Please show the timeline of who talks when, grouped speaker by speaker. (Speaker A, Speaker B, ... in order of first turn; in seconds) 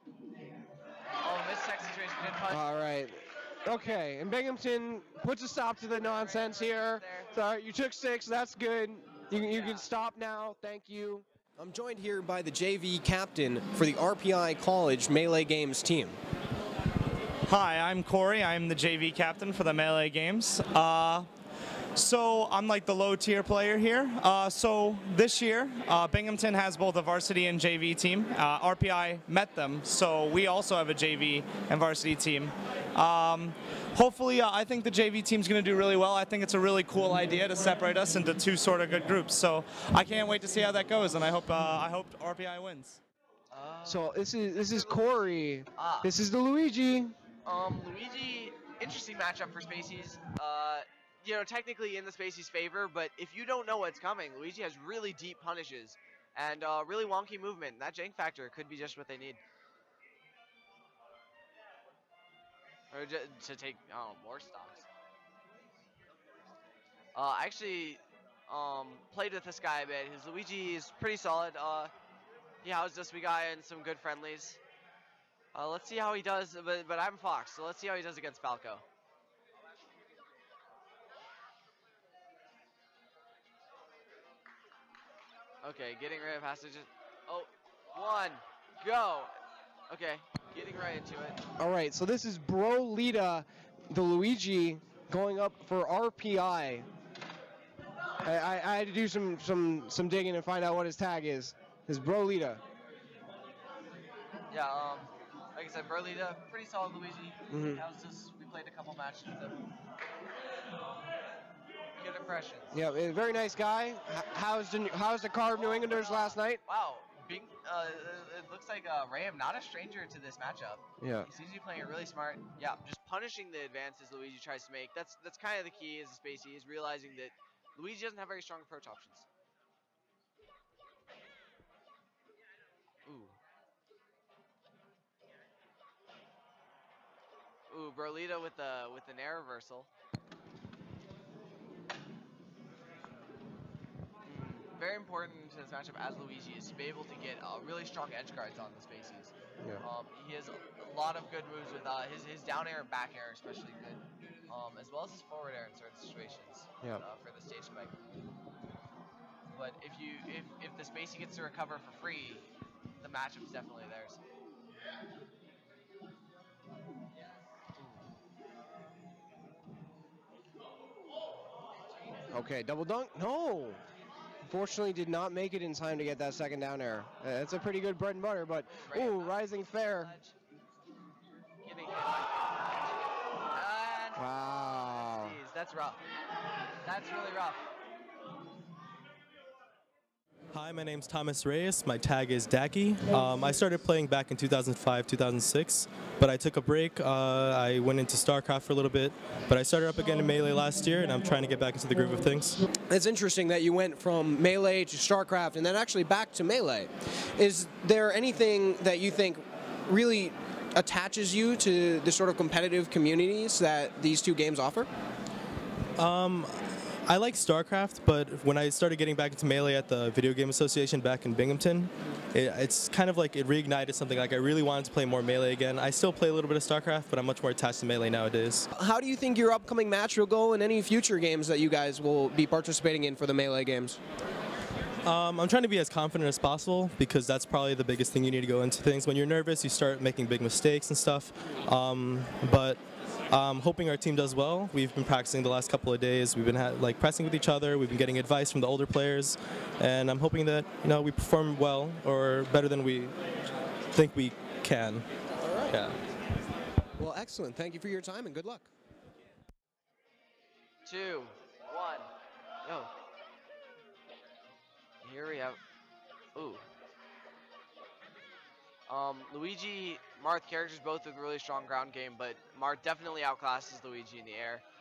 Speaker A: 1.2-2.7, 6.0-7.3, 9.3-9.9, 43.5-46.1, 47.5-59.4, 62.9-64.8, 67.1-71.9, 72.6-74.6, 75.5-78.8, 85.6-89.3, 89.9-91.4, 104.5-109.6, 112.0-112.7, 115.5-129.2, 133.1-133.3, 137.7-139.9, 144.2-157.9, 159.5-162.4, 163.0-164.2, 178.7-180.3, 181.7-186.0, 186.8-187.6, 260.8-262.1, 262.6-262.9, 265.0-265.6, 266.4-266.6, 268.9-274.6
Speaker B: 2.5-16.2, 43.8-47.1, 91.6-96.9, 98.2-102.6, 107.5-107.8, 112.7-116.6, 121.0-121.3, 172.3-173.8, 174.4-180.1, 184.2-185.4, 202.9-214.9, 228.7-234.0, 255.4-255.8, 257.0-258.7
Speaker C: 17.5-21.3, 21.9-43.0
Speaker D: 190.5-202.6, 216.0-228.7, 235.0-242.8, 243.3-253.2, 253.9-255.0, 255.7-256.0